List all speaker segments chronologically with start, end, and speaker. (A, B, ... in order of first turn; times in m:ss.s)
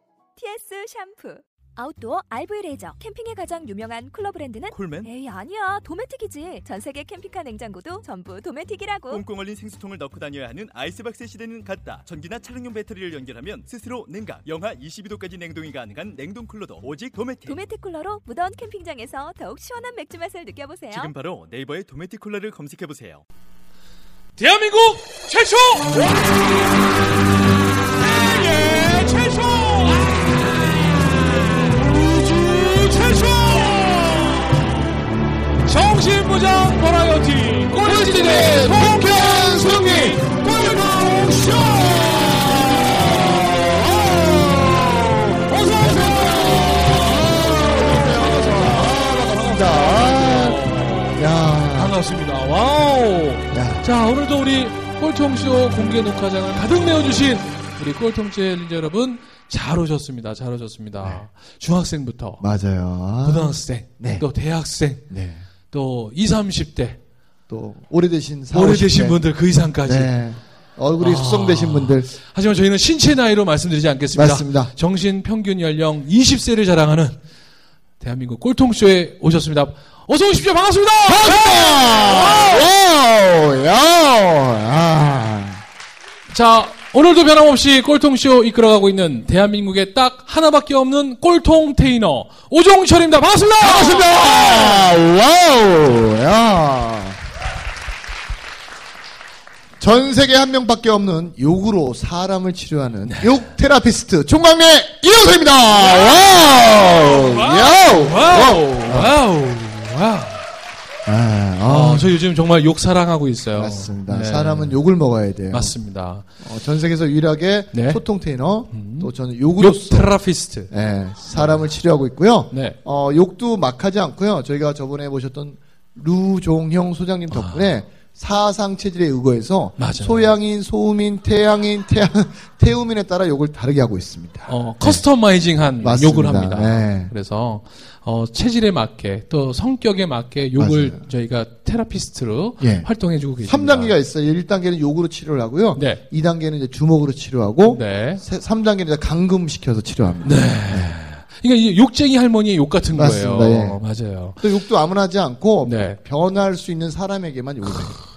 0:00.4-0:09.3 A
0:04.7-0:05.1 B
0:09.1-0:17.6 B
0:17.4-0:21.1 A
0:20.9-0:23.2 B
0:24.4-0:26.6 C
0:27.6-0:34.8 C
0:35.6-1:02.4 C
0:37.8-0:45.1 D
0:45.7-0:52.0 D
0:53.5-0:53.9 D
1:02.4-1:04.3 D
1:03.2-1:05.1 C
1:05.1-1:05.5 D
1:05.7-1:07.0 C
1:07.5-1:12.1 D
1:08.5-1:10.1 C
1:11.0-1:17.2 C
1:14.1-1:14.7 D
1:18.0-1:22.7 C
1:21.1-1:25.6 D
1:26.3-1:34.8 C
1:33.6-1:37.2 D
1:39.8-1:49.2 D
1:43.1-1:43.4 C
1:45.8-1:50.4 C
1:51.1-1:52.2 D
1:51.7-1:54.8 C
1:53.6-1:55.8 D
1:55.5-1:56.3 C
1:56.4-2:15.1 D
1:57.7-1:58.0 C
1:58.7-2:00.7 C
2:01.3-2:01.6 C
2:02.5-2:02.8 C
2:07.3-2:07.7 C
2:09.8-2:10.3 C
2:14.5-2:24.0 C
2:15.8-2:17.1 D
2:20.6-2:21.1 D
2:22.6-2:22.9 D
2:23.4-2:31.0 D
2:25.7-2:26.0 C
2:27.7-2:28.2 C
2:30.2-2:34.5 C
2:32.9-2:38.0 D
2:35.6-2:36.0 C